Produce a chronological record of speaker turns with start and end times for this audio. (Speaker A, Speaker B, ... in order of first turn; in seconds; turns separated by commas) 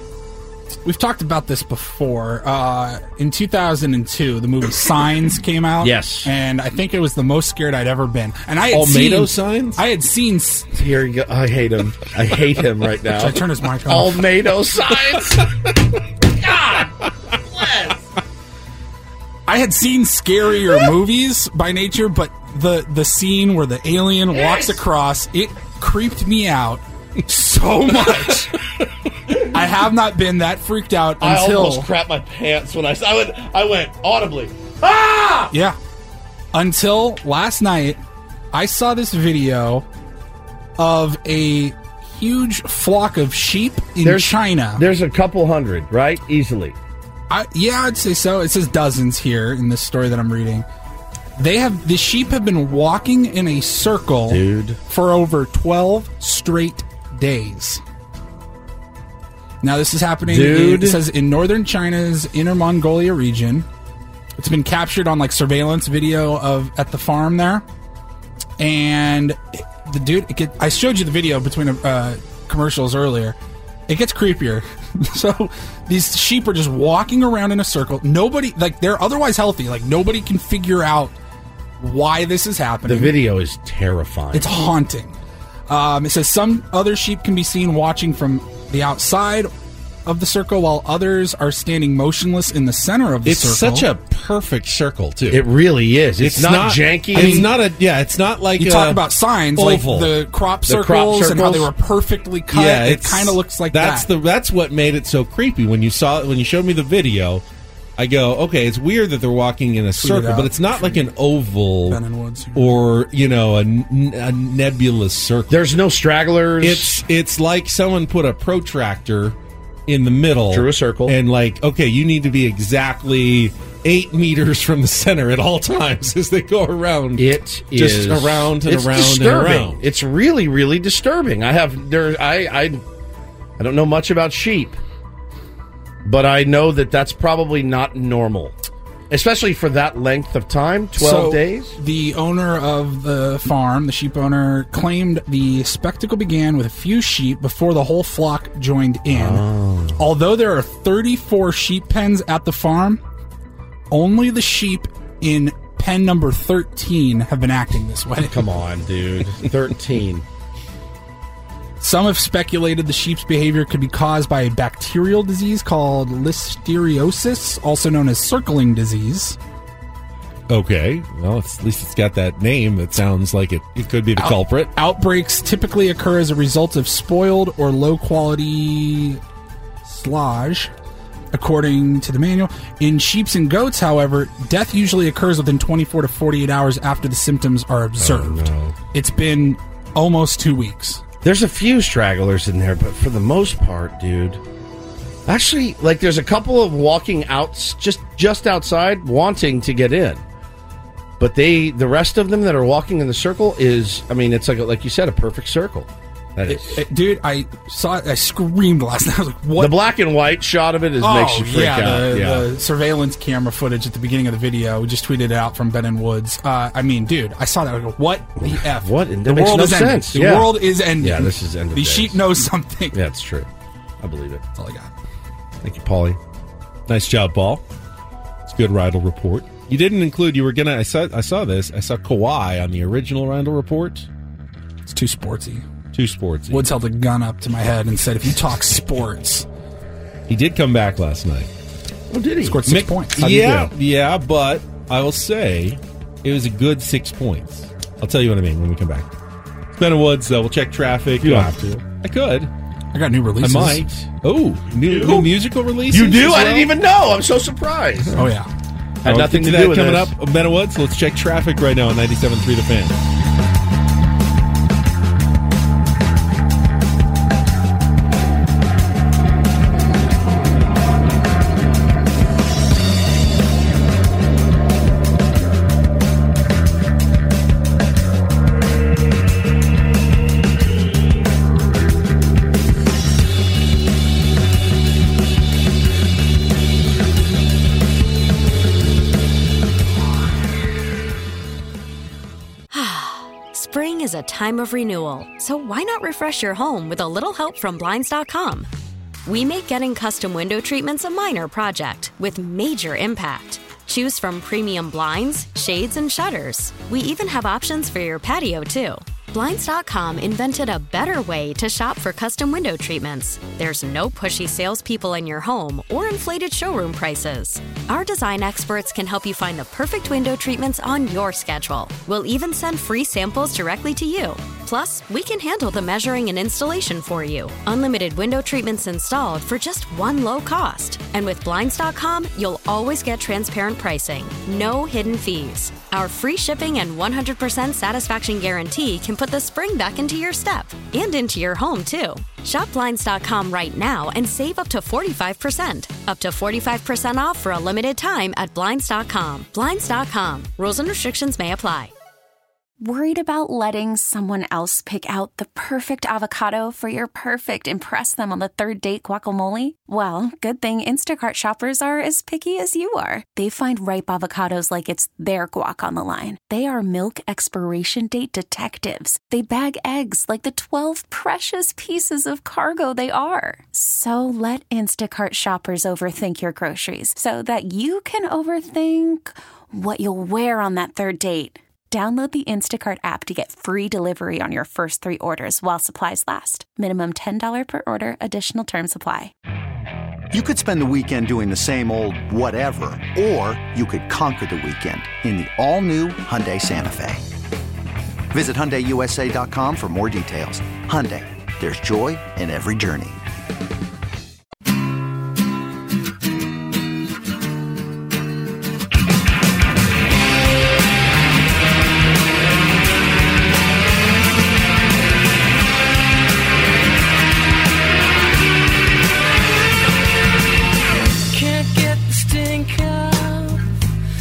Speaker A: 0.8-10.7, Speaker B: 5.8-6.3, Speaker C: 8.7-9.8, Speaker B: 10.7-15.5, Speaker A: 13.1-14.2, Speaker B: 16.2-18.0, Speaker A: 19.5-28.5, Speaker B: 24.4-24.8, Speaker A: 29.4-31.9, Speaker B: 31.2-35.5, Speaker A: 35.5-35.8, Speaker A: 36.5-38.0, Speaker A: 38.5-39.9, Speaker A: 40.8-44.9, Speaker B: 44.0-46.8, Speaker A: 47.3-50.7, Speaker A: 51.4-57.8, Speaker B: 54.3-54.8, Speaker A: 59.6-63.7, Speaker B: 60.2-61.0, Speaker A: 64.4-67.7, Speaker A: 68.6-73.4, Speaker A: 73.9-81.2, Speaker A: 81.8-83.2, Speaker B: 82.9-84.5, Speaker A: 84.3-85.2, Speaker A: 85.7-89.5, Speaker A: 90.1-93.9, Speaker C: 93.2-95.4, Speaker B: 95.3-97.5, Speaker C: 96.2-100.1, Speaker A: 97.1-97.5, Speaker A: 98.6-104.1, Speaker B: 100.7-101.7, Speaker C: 102.5-107.4, Speaker C: 108.0-112.0, Speaker A: 110.0-111.1, Speaker A: 111.9-112.7, Speaker C: 112.5-115.6, Speaker B: 115.5-117.0, Speaker C: 116.6-119.4, Speaker C: 119.9-129.8, Speaker B: 120.5-121.2, Speaker B: 127.2-132.8, Speaker B: 133.6-134.8, Speaker B: 136.0-138.6, Speaker B: 139.1-141.8, Speaker A: 141.0-149.4, Speaker B: 149.1-150.0, Speaker A: 150.0-153.0, Speaker A: 153.9-158.4, Speaker B: 158.2-160.2, Speaker A: 161.8-169.4, Speaker C: 170.5-174.7, Speaker A: 174.2-179.2, Speaker A: 179.8-180.7, Speaker A: 181.3-191.0, Speaker B: 188.0-188.8, Speaker B: 191.2-194.4, Speaker B: 195.2-200.2, Speaker B: 201.2-206.8, Speaker A: 206.5-209.8, Speaker B: 209.6-212.5, Speaker A: 211.0-223.0, Speaker B: 218.4-222.2, Speaker B: 222.9-223.5, Speaker B: 224.0-224.4, Speaker A: 224.6-224.9, Speaker B: 225.6-226.2, Speaker C: 226.9-227.6, Speaker C: 228.4-234.1, Speaker A: 234.9-235.7, Speaker C: 235.9-236.7, Speaker A: 236.5-239.5, Speaker C: 240.3-241.5, Speaker B: 242.1-242.6, Speaker A: 242.4-243.2, Speaker C: 242.7-249.1, Speaker B: 243.2-243.7, Speaker C: 249.7-252.5, Speaker B: 251.2-251.8, Speaker A: 252.9-253.9, Speaker C: 253.4-256.7, Speaker B: 254.9-255.4, Speaker B: 255.9-258.2, Speaker A: 258.1-258.5, Speaker B: 259.0-260.1, Speaker C: 259.0-263.0, Speaker D: 292.7-298.7, Speaker D: 299.2-351.9, Speaker E: 352.8-389.3, Speaker F: 390.3-397.2, Speaker F: 398.3-403.2, Speaker G: 421.1-423.7